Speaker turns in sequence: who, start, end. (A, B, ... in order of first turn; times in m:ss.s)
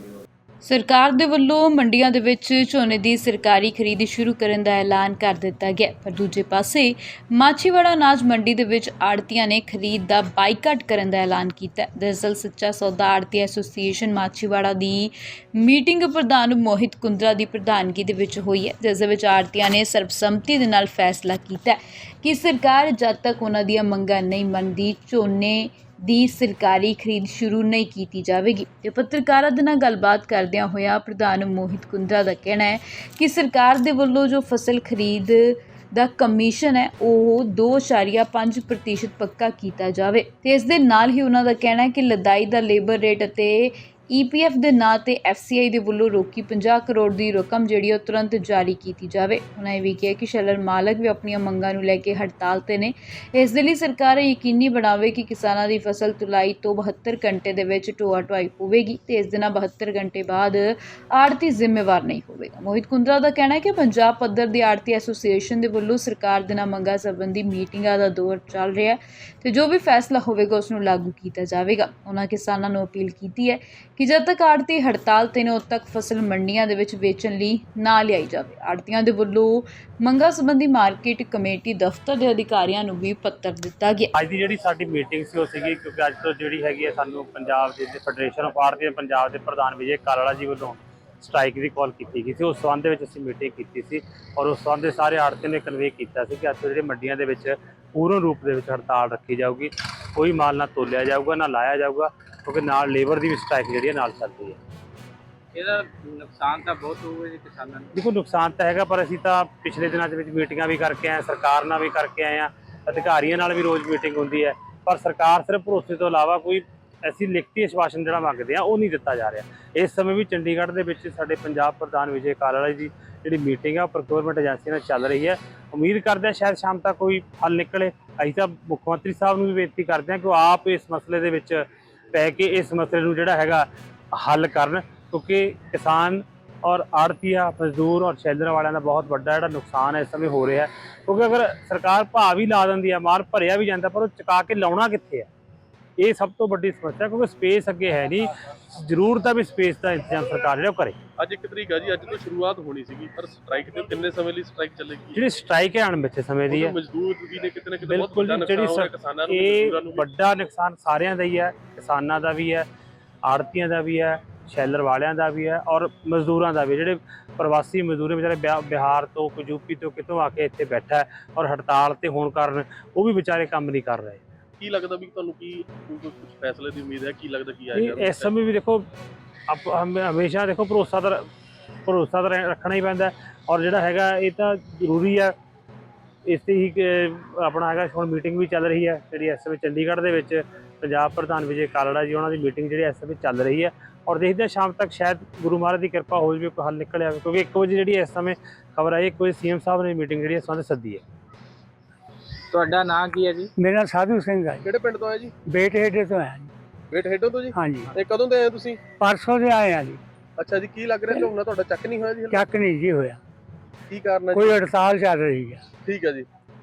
0:00.6-1:24.1 A
1:24.2-1:44.6 B
1:45.5-1:47.9 C
1:48.0-2:25.3 B
2:26.0-2:31.0 B
2:31.2-2:35.2 D
2:35.2-2:36.8 B
2:36.5-2:40.1 D
2:37.8-2:42.7 B
2:43.2-2:54.2 B
2:54.6-2:58.3 D
2:57.8-2:58.9 B
2:59.5-3:01.3 B
3:01.9-3:05.4 B
3:06.3-3:21.0 B
3:22.5-3:23.5 C
3:23.6-3:24.7 E
3:24.6-3:25.3 D
3:25.5-3:26.5 E
3:26.9-3:28.8 D
3:27.5-3:27.9 E
3:29.0-3:30.0 E
3:30.4-3:32.4 D
3:32.3-3:33.2 E
3:33.9-3:34.6 D
3:34.3-3:35.7 E
3:35.8-3:36.3 D